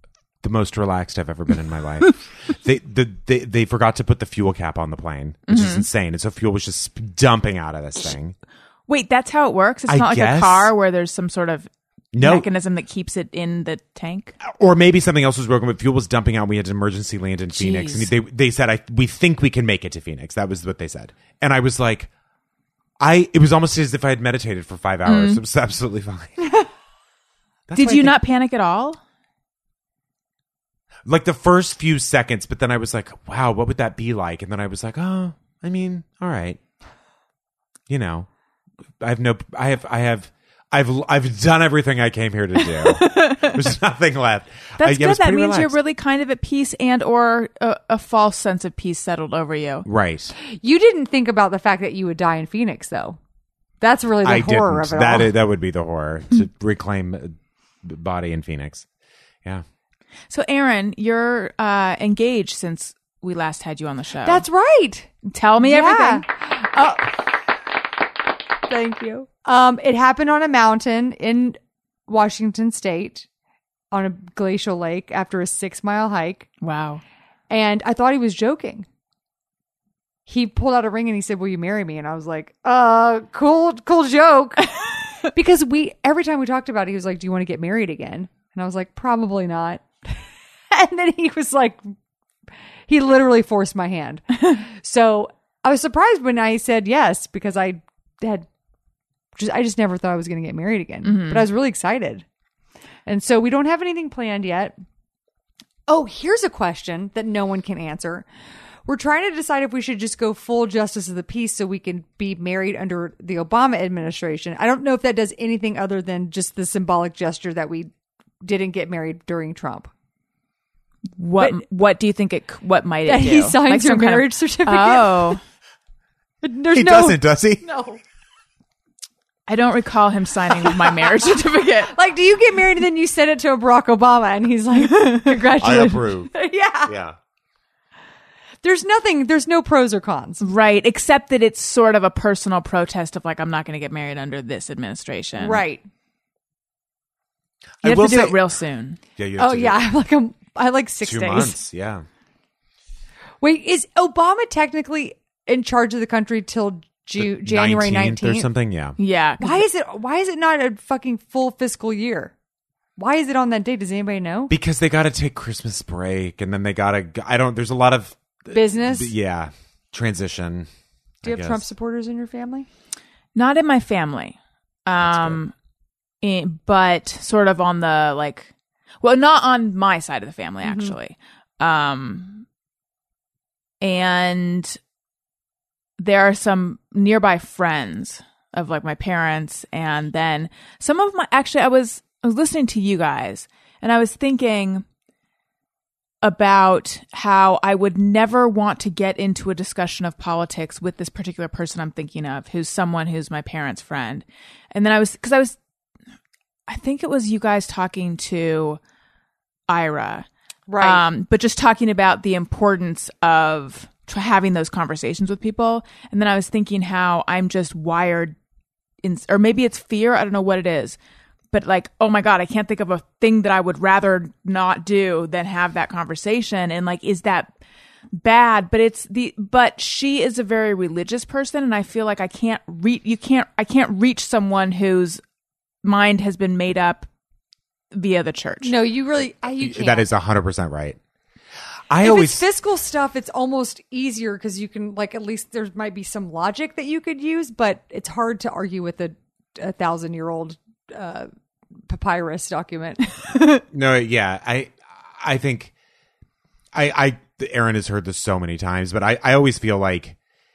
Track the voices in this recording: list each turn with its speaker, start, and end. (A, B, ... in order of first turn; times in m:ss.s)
0:00.4-0:08.4 A
0:05.5-0:05.9 B
0:08.9-0:14.3 B
0:09.9-0:10.7 A
0:12.1-0:12.5 A
0:14.4-0:22.1 A
0:17.5-0:18.1 B
0:23.0-0:26.5 A
0:25.1-0:25.4 B
0:27.7-0:28.2 A
0:27.8-0:29.0 B
0:31.1-0:36.6 A
0:37.9-0:38.3 A
0:39.0-0:45.8 A
0:42.6-0:43.7 B
0:44.8-0:49.9 B
0:49.8-0:50.3 A
0:50.4-0:53.2 C
0:53.8-0:55.3 C
0:54.2-0:58.9 A
1:00.3-1:04.4 B
1:04.2-1:07.1 C
1:05.3-1:06.3 B
1:08.7-1:13.3 C
1:13.9-1:16.5 C
1:16.6-1:17.0 B
1:17.5-1:18.9 C
1:20.3-1:24.7 C
1:25.3-1:30.2 C
1:30.7-1:31.9 C
1:32.9-1:38.5 C
1:39.4-1:42.2 C
1:41.0-1:41.5 B
1:43.1-1:44.8 C
1:45.9-1:48.3 C
1:48.9-1:57.9 C
1:58.4-1:59.9 C
2:01.2-2:05.4 B
2:03.1-2:05.4 C
2:06.4-2:08.0 C
2:06.7-2:07.6 A
2:09.5-2:11.9 B
2:11.2-2:16.9 C
2:15.6-2:16.3 A
2:16.9-2:17.2 A
2:18.6-2:20.4 C
2:20.4-2:25.6 B
2:25.4-2:25.8 C
2:27.8-2:28.4 A
2:27.8-2:29.0 B
2:29.2-2:29.8 A
2:29.4-2:31.6 C
2:31.0-2:32.0 A
2:33.4-2:38.5 C
2:37.2-2:39.0 A
2:39.0-2:39.6 B
2:39.4-2:42.3 C
2:43.0-2:44.5 C
2:44.5-2:50.7 A
2:48.5-2:49.1 C
2:51.2-2:51.6 A
2:51.2-2:52.7 C
2:53.4-2:55.5 B
2:55.0-2:55.4 A
2:56.2-2:58.5 B
2:59.0-3:02.4 B
3:00.6-3:01.0 C
3:03.8-3:04.8 B
3:06.0-3:14.8 B
3:16.2-3:25.6 B
3:26.7-3:28.8 B
3:29.7-3:30.3 B
3:30.7-3:31.0 C
3:30.8-3:38.4 B
3:39.0-3:41.0 B
3:41.5-3:47.5 B
3:48.2-3:55.2 B
3:55.8-3:57.1 B
3:57.9-3:58.8 B
3:58.6-4:00.1 C
3:59.6-4:01.0 A
4:01.9-4:02.4 A
4:02.0-4:11.3 C
4:11.9-4:13.1 C
4:13.7-4:15.7 A
4:16.7-4:20.2 A